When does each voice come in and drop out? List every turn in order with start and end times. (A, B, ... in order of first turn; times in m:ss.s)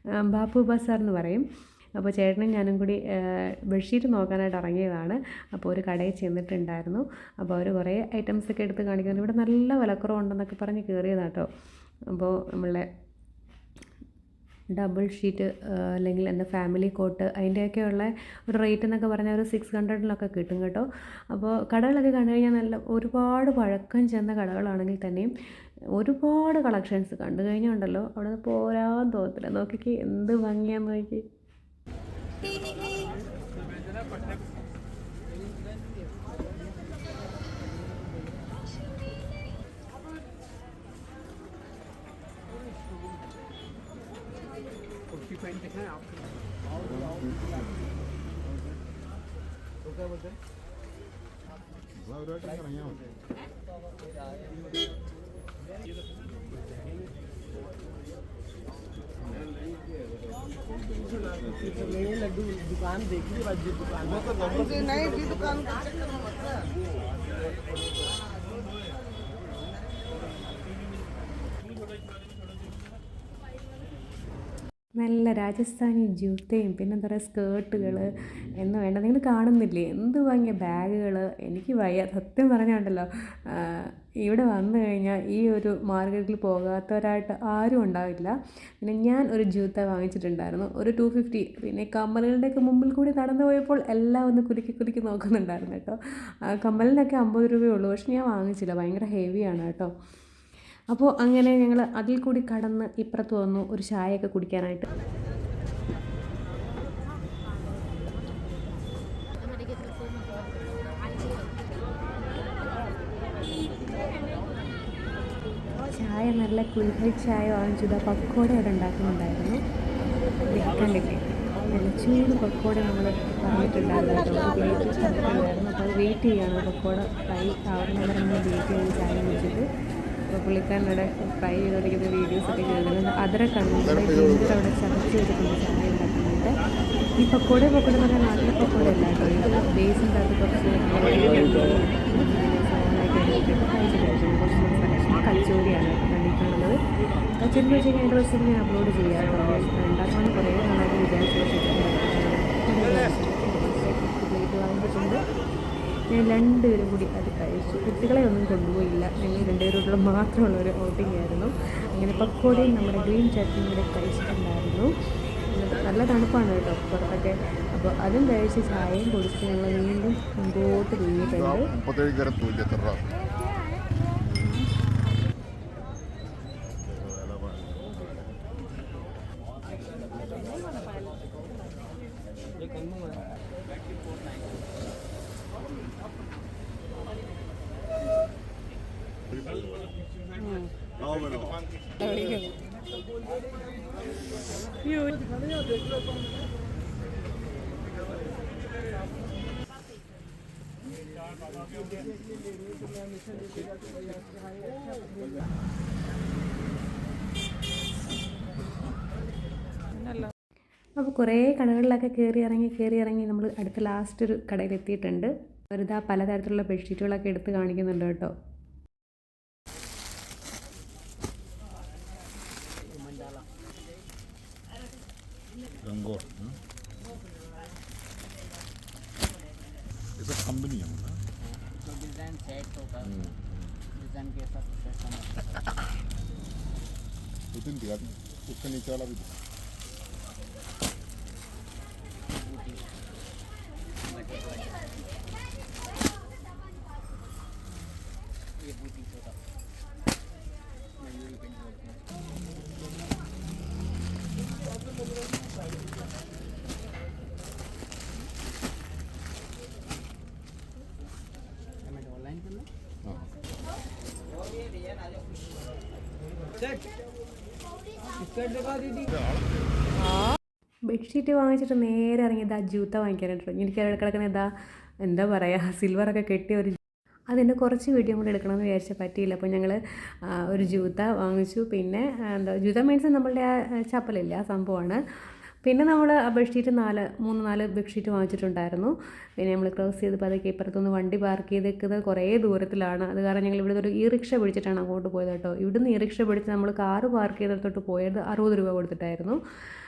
0:00.2-0:01.4 A
0:02.0-0:11.5 A
0:12.1-0:12.9 A
0:14.7-0:25.3 A
0:26.0-0:31.2 A
0:45.2-0:46.0 B
0:46.8-0:47.6 C
0:52.0-0:53.0 C
1:02.4-1:03.1 B
1:04.0-1:05.2 B
1:15.0-1:36.0 A
1:36.5-1:39.9 A
1:40.9-1:44.9 A
1:55.9-1:59.6 A
2:00.5-2:09.7 A
2:10.3-2:16.6 A
2:17.2-2:35.2 A
2:36.1-2:44.9 A
2:45.5-2:51.7 A
2:51.6-2:53.1 C
2:57.2-2:57.6 C
3:23.5-3:23.7 B
3:31.0-3:38.3 A
3:42.9-3:43.5 B
3:45.8-3:46.6 C
3:50.2-3:51.2 C
3:51.4-3:53.3 B
3:53.0-3:53.7 C
3:53.9-3:55.7 B
3:57.5-3:59.4 C
4:02.3-4:02.9 B
4:04.0-4:04.8 B
4:08.6-4:09.4 B
4:11.0-4:12.0 B
4:21.8-4:22.7 B
4:28.4-4:29.1 B
4:30.9-4:34.5 A
4:35.0-4:45.0 A
4:45.6-4:59.4 A